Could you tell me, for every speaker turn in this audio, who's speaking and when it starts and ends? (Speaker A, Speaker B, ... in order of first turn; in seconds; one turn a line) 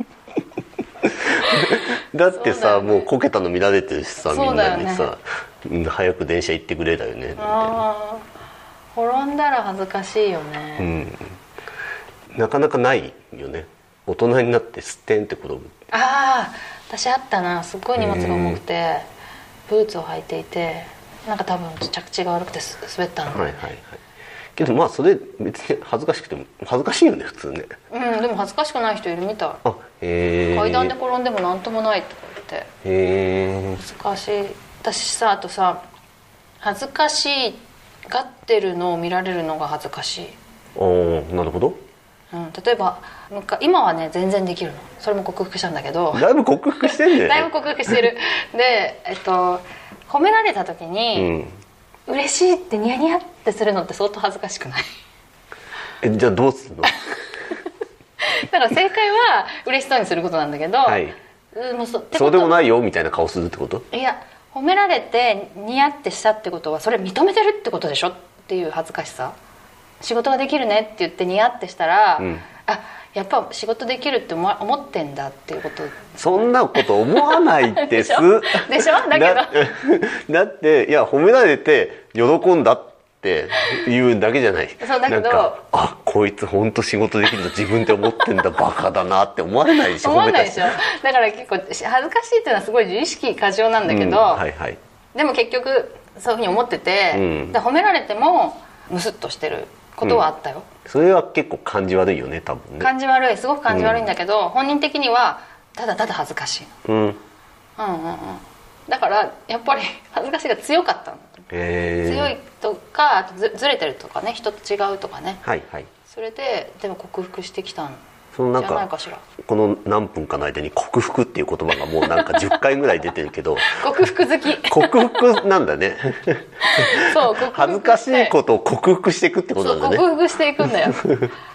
Speaker A: 1.0-7.8
Speaker B: 2.3-3.1
Speaker B: 4.2-5.1
Speaker B: 7.4-8.3
Speaker B: 8.9-10.9
Speaker A: 10.8-11.3
Speaker A: 12.3-15.7
Speaker B: 15.9-19.1
Speaker A: 18.0-18.6
Speaker B: 19.7-23.6
Speaker A: 23.3-24.0
Speaker A: 24.6-27.7
Speaker B: 27.9-29.6
Speaker A: 29.6-30.9
Speaker B: 30.5-32.7
Speaker A: 32.8-33.8
Speaker B: 33.8-35.8
Speaker B: 36.6-40.4
Speaker A: 40.8-41.8
Speaker B: 42.3-46.3
Speaker A: 46.1-48.0
Speaker B: 46.8-51.3
Speaker A: 51.1-51.6
Speaker B: 52.1-54.9
Speaker A: 56.0-57.0
Speaker B: 58.2-62.6
Speaker A: 60.9-61.2
Speaker A: 62.1-63.9
Speaker B: 63.9-69.3
Speaker B: 70.0-79.7
Speaker A: 72.2-72.5
Speaker A: 76.2-90.8
Speaker B: 84.8-85.6
Speaker B: 87.6-88.6
Speaker B: 89.7-94.4
Speaker A: 93.9-94.8
Speaker B: 95.2-100.7
Speaker A: 97.1-97.6
Speaker A: 100.9-102.9
Speaker B: 102.8-106.8
Speaker A: 103.7-104.1
Speaker A: 106.9-107.2
Speaker B: 107.8-111.4
Speaker A: 111.5-112.3
Speaker B: 112.0-115.4
Speaker A: 115.4-115.9
Speaker B: 116.1-118.0
Speaker A: 118.3-118.9
Speaker B: 118.6-119.2
Speaker A: 119.4-123.8
Speaker B: 122.1-122.5
Speaker B: 123.6-125.4
Speaker A: 124.7-130.1
Speaker B: 126.6-128.3
Speaker B: 129.6-131.2
Speaker A: 131.0-131.3